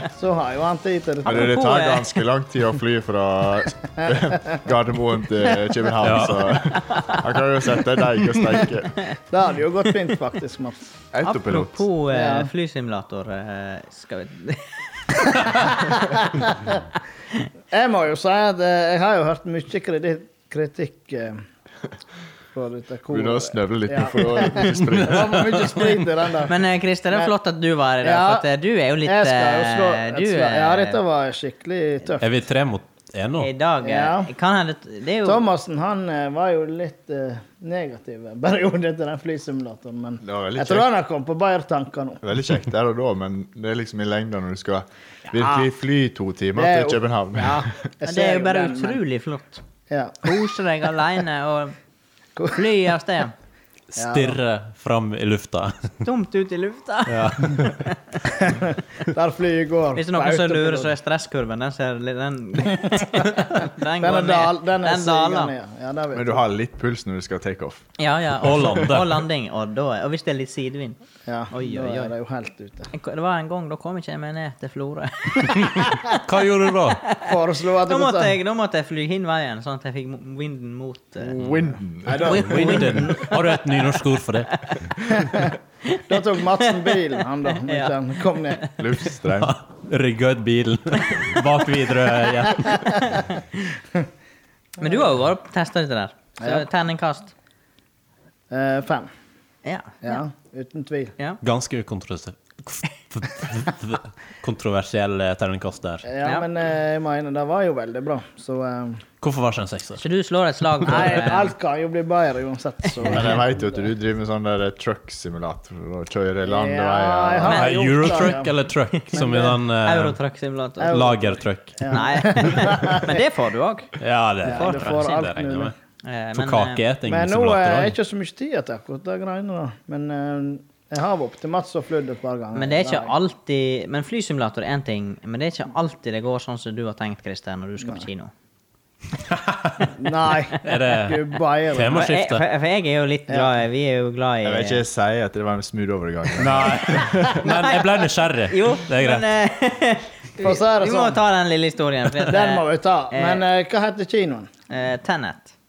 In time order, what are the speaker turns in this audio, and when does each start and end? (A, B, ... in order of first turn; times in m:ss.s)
0:00.1-0:01.6 A
0:01.2-0:02.2 B
0:01.3-0:09.1 C
0:04.0-0:04.4 A
0:06.0-0:06.5 D
0:06.9-0:07.2 B
0:09.3-0:10.9 A
0:11.1-0:11.9 C
0:11.2-0:16.2 B
0:12.1-0:12.5 A
0:15.5-0:16.8 A
0:17.7-0:21.4 A
0:22.5-0:27.3 A
0:23.1-0:25.7 C
0:24.8-0:25.9 D
0:26.4-0:31.0 B
0:28.0-0:28.5 A
0:29.0-0:32.3 A
0:32.2-0:33.5 D
0:33.4-0:35.4 B
0:33.8-0:34.3 A
0:35.2-0:42.2 A
0:40.2-0:40.9 C
0:42.2-0:47.7 C
0:45.4-0:45.7 A
0:46.6-0:47.0 A
0:47.4-0:49.6 B
0:48.0-0:49.0 A
0:49.9-0:50.3 A
0:50.2-0:51.8 B
0:52.4-0:52.6 A
0:52.5-0:53.3 B
0:53.9-0:56.0 D
0:54.0-0:54.4 A
0:56.0-0:58.0 B
0:57.1-0:57.9 D
0:58.4-1:00.9 A
1:00.0-1:05.5 B
1:02.8-1:06.4 A
1:06.1-1:07.8 C
1:08.0-1:11.0 B
1:08.4-1:09.2 D
1:08.6-1:09.0 C
1:11.3-1:12.9 A
1:11.5-1:12.1 B
1:12.9-1:16.2 B
1:15.6-1:17.0 D
1:17.0-1:21.4 B
1:17.2-1:18.4 A
1:21.2-1:22.4 C
1:22.0-1:23.1 A
1:22.2-1:24.0 B
1:22.2-1:24.6 D
1:25.9-1:28.7 B
1:26.1-1:28.6 A
1:28.8-1:29.5 C
1:29.4-1:33.2 D
1:31.0-1:31.4 B
1:32.6-1:33.7 B
1:34.8-1:37.3 B
1:36.4-1:36.7 A
1:38.5-1:39.1 A
1:39.6-1:40.2 B
1:40.0-1:41.1 A
1:41.4-1:46.1 D
1:46.1-1:49.0 A
1:49.2-1:50.0 D
1:50.0-1:51.5 B
1:50.8-1:53.8 A
1:53.0-1:57.6 C
1:56.4-1:58.5 A
1:57.4-2:00.2 D
1:57.5-1:58.3 B
1:59.0-2:01.1 B
1:59.2-1:59.5 A
2:00.8-2:03.2 A
2:00.8-2:02.0 D
2:01.9-2:03.9 B
2:04.0-2:05.7 D
2:04.4-2:05.7 A
2:04.4-2:05.3 B
2:06.0-2:06.8 B
2:06.4-2:08.0 D
2:07.1-2:13.1 A
2:12.6-2:18.3 B
2:19.3-2:19.9 D
2:20.0-2:22.1 A
2:20.6-2:22.4 D
2:21.9-2:24.8 B
2:24.4-2:27.4 C
2:26.4-2:29.3 D
2:27.2-2:27.9 B
2:28.5-2:33.4 B
2:30.4-2:31.2 A
2:32.2-2:34.5 A
2:34.7-2:35.5 B